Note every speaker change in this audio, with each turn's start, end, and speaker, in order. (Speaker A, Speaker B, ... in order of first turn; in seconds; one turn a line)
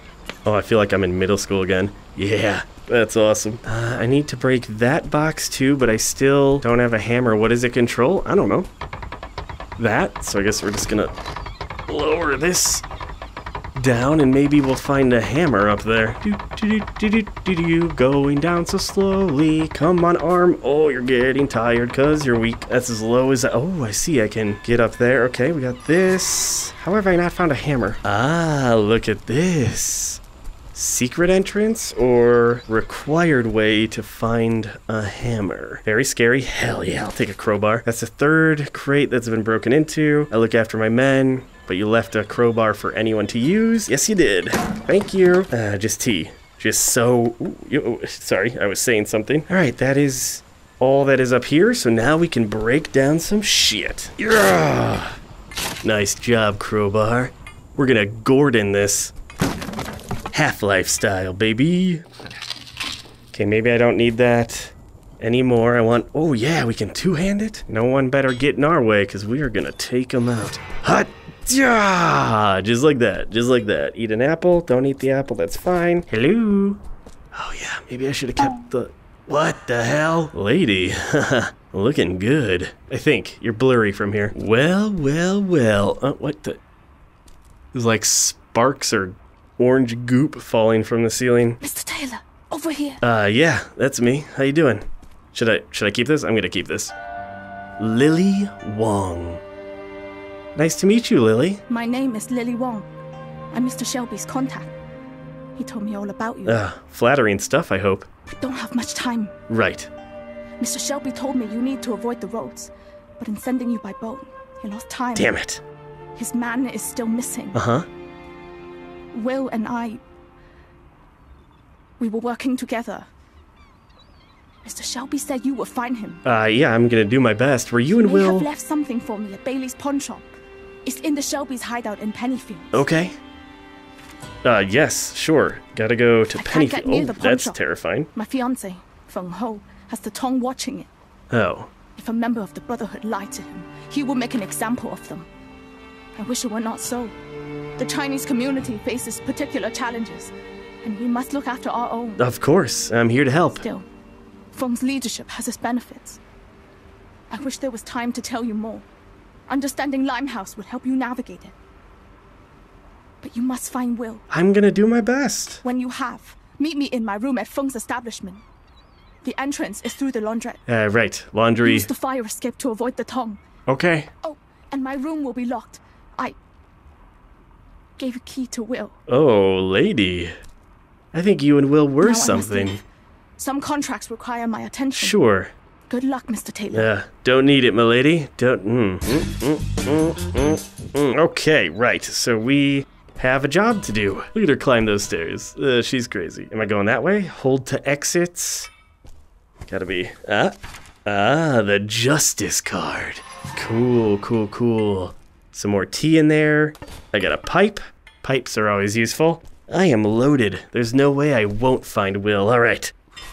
Speaker A: 0.4-8.7
Speaker A: 9.8-11.1
Speaker A: 11.9-12.8
Speaker A: 13.7-30.2
Speaker A: 30.7-55.2
Speaker A: 55.8-59.1
Speaker A: 60.3-62.0
Speaker A: 63.3-76.8
Speaker A: 77.3-86.6
Speaker A: 87.7-91.6
Speaker B: 91.6-93.0
Speaker A: 93.0-96.9
Speaker A: 97.8-99.4
Speaker A: 100.5-101.6
Speaker B: 101.7-102.8
Speaker B: 103.5-104.7
Speaker B: 105.6-106.6
Speaker A: 106.4-108.1
Speaker B: 108.4-109.3
Speaker A: 109.5-109.9
Speaker B: 110.6-115.3
Speaker A: 115.2-115.6
Speaker B: 116.2-117.6
Speaker A: 117.5-117.9
Speaker B: 119.1-120.0
Speaker B: 122.0-123.1
Speaker B: 124.6-126.2
Speaker A: 126.2-128.5
Speaker B: 127.9-130.2
Speaker B: 130.8-132.7
Speaker A: 132.7-133.2
Speaker A: 134.4-138.1
Speaker B: 136.3-137.6
Speaker B: 138.1-140.9
Speaker A: 141.3-141.7
Speaker B: 141.9-145.3
Speaker B: 146.2-147.1
Speaker B: 147.8-150.3
Speaker B: 150.8-152.2
Speaker A: 152.2-153.6
Speaker B: 153.6-153.8
Speaker B: 154.5-156.2
Speaker B: 157.3-158.8
Speaker B: 159.5-161.5
Speaker B: 163.2-164.2
Speaker A: 164.3-165.6
Speaker B: 165.6-168.4
Speaker B: 169.2-170.6
Speaker A: 170.7-171.9
Speaker B: 171.6-173.4
Speaker A: 173.7-174.1
Speaker B: 174.2-176.3
Speaker B: 178.0-179.0
Speaker A: 179.1-180.3
Speaker A: 181.1-182.8
Speaker B: 182.0-182.8
Speaker B: 183.4-185.2
Speaker A: 184.9-185.5
Speaker B: 185.9-186.9
Speaker A: 186.7-198.7
Speaker A: 199.7-212.9